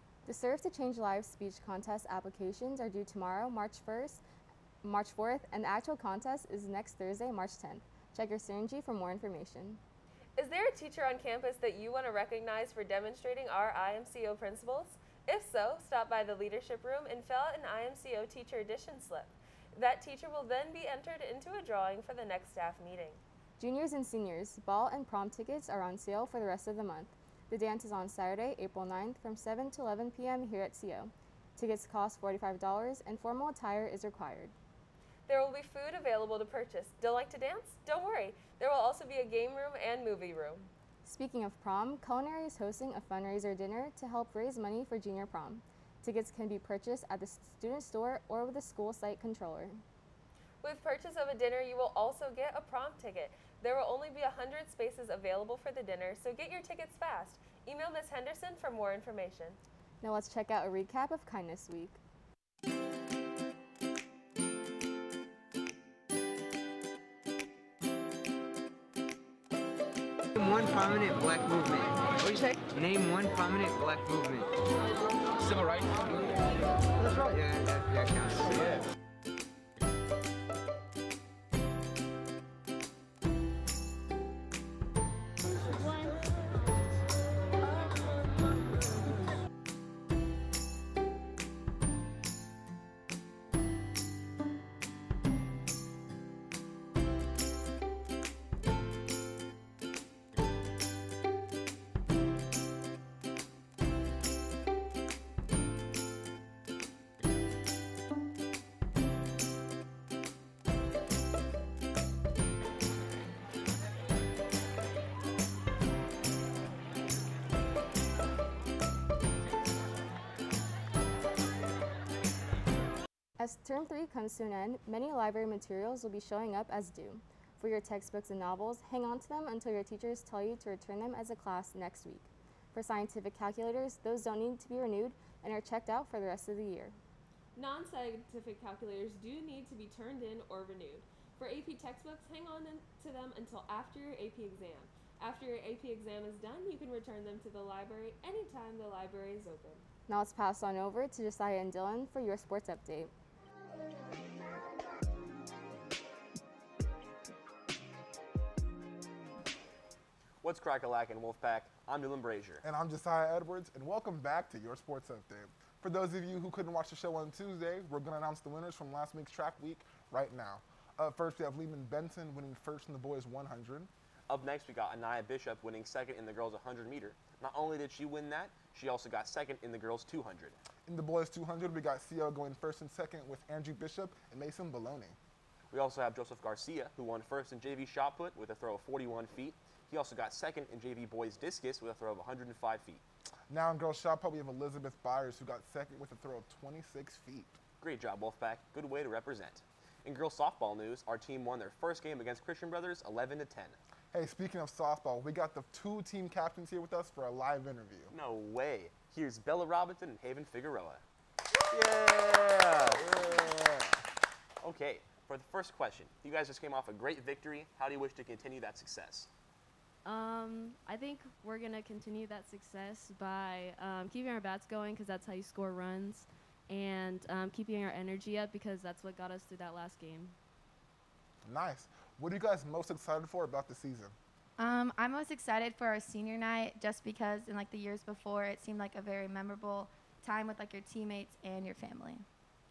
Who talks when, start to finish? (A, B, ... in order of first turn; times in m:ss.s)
0:00.2-0:04.2 A
0:04.8-0:09.8 A
0:10.4-0:23.2 B
0:23.6-0:34.5 A
0:35.3-0:40.7 B
0:41.0-0:49.8 A
0:50.6-0:59.6 B
1:00.0-1:02.0 A
1:10.4-1:14.5 C
1:15.5-1:15.8 C
1:17.0-1:18.8 C
2:03.4-2:16.9 A
2:17.6-2:29.8 B
2:30.1-2:33.1 A
2:40.4-2:42.6 D
2:42.6-2:53.9 E
2:54.3-3:00.6 D
3:00.9-3:05.2 E
3:05.7-3:13.0 D
3:13.5-3:17.6 E
3:17.8-3:23.8 D
3:24.1-3:28.1 E
3:28.1-3:31.0 D
3:31.7-3:33.3 D
3:33.0-3:34.0 E
3:34.6-3:39.3 D
3:40.0-3:50.4 F
3:51.4-3:54.2 E
3:54.6-4:02.2 G